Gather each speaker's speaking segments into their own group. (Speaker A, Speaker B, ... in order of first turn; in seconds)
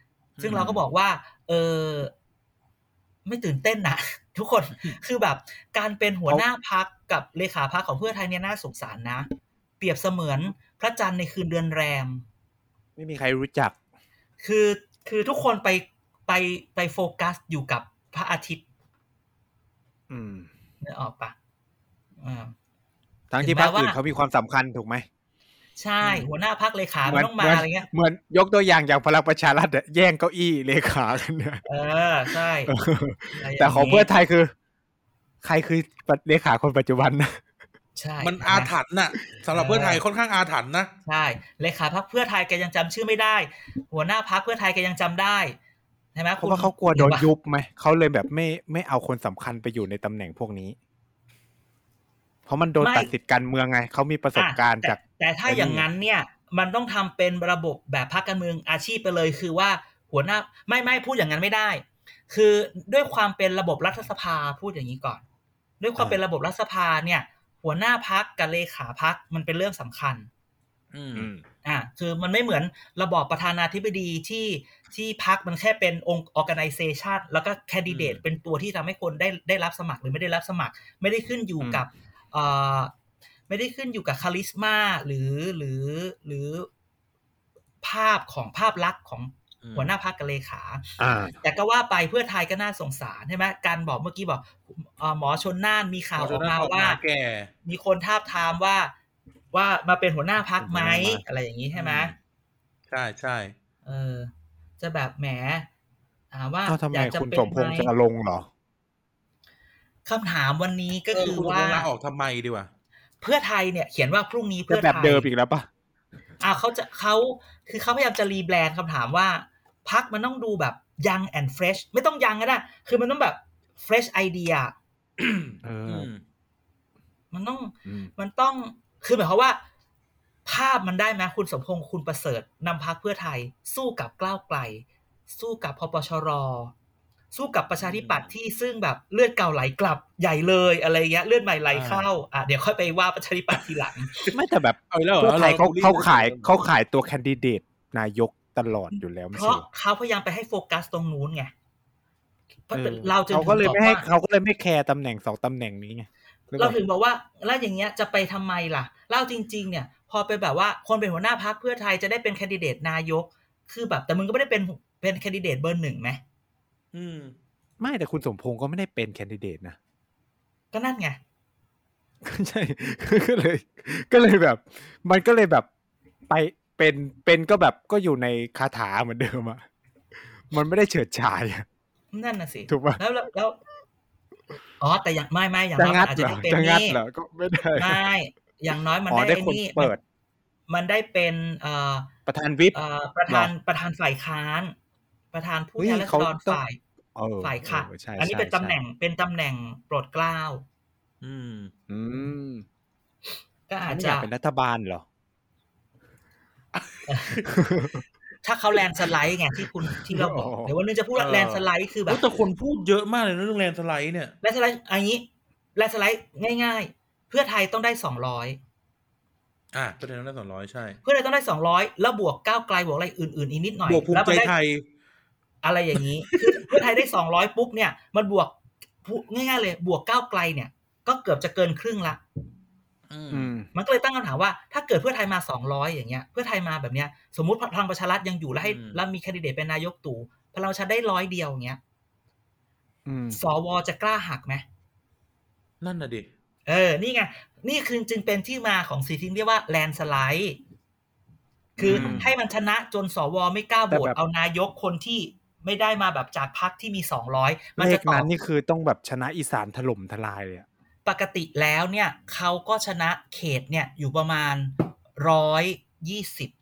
Speaker A: 0.4-0.8, 38.2-40.9, 70.9-71.3, 77.9-78.2, 89.6-89.9, 96.2-97.5, 101.7-102.2, 102.9-103.5, 111.1-112.7, 125.2-126.2, 137.8-138.3, 141.7-142.1, 143.5-144.3, 144.9-146.5, 166.9-167.3, 201.2-201.7, 206.7-207.5, 211.2-214.3, 219.7-221.0, 223.9-224.8, 226.3-226.8, 233.1-233.5, 238.6-239.0, 245.8-246.3, 251.8-252.2
Speaker B: 0.4-2.1, 3.3-9.3, 9.8-12.2, 14.4-18.6, 20.8-21.4, 22.2-22.5, 23.4-24.0, 25.8-27.9, 31.7-32.7, 33.3-34.1, 38.0-38.7, 39.5-40.0, 41.1-45.6, 46.1-47.3, 52.8-53.1, 54.4-65.2, 65.8-70.3, 71.6-82.9, 83.5-86.7, 87.8-97.0, 97.7-98.9, 99.5-102.2, 103.8-105.7, 106.3-107.9, 110.1-111.9, 113.2-115.3, 116.4-124.8, 127.3-129.6, 130.5-136.7, 137.3-144.2, 149.3-151.5, 152.7-154.1, 156.6-166.2, 170.7-171.2, 182.1-183.6, 184.8-187.0, 187.8-189.9, 190.7-192.1, 192.7-194.8, 195.3-196.8, 197.4-200.6, 203.7-204.3, 207.1-207.4, 208.4-212.2, 214.4-218.6, 221.0-224.5, 225.6-232.2, 233.7-241.8, 243.3-244.6, 246.7-250.6, 251.8-258.3, 261.1-266.5
Speaker C: 13.0-13.8, 20.1-20.5, 23.3-25.1, 26.0-26.3, 27.1-31.6, 32.7-34.5, 35.4-37.4, 46.4-50.8, 52.5-55.9, 71.2-71.4, 91.0-91.4, 100.6-101.2, 106.7-108.5, 114.7-115.7, 125.6-126.1, 127.9-128.1, 144.3-149.7, 152.7-156.8, 167.8-169.8, 172.2-175.7, 176.3-179.6, 180.5-181.7, 182.7-183.0, 185.8-188.0, 189.1-190.0, 192.3-192.8, 195.8-196.6, 197.2-198.8, 201.9-202.7, 203.9-205.1, 207.5-208.0, 210.1-210.7, 233.3-233.7, 243.1-243.4, 251.8-252.3, 253.9-254.2, 257.8-260.7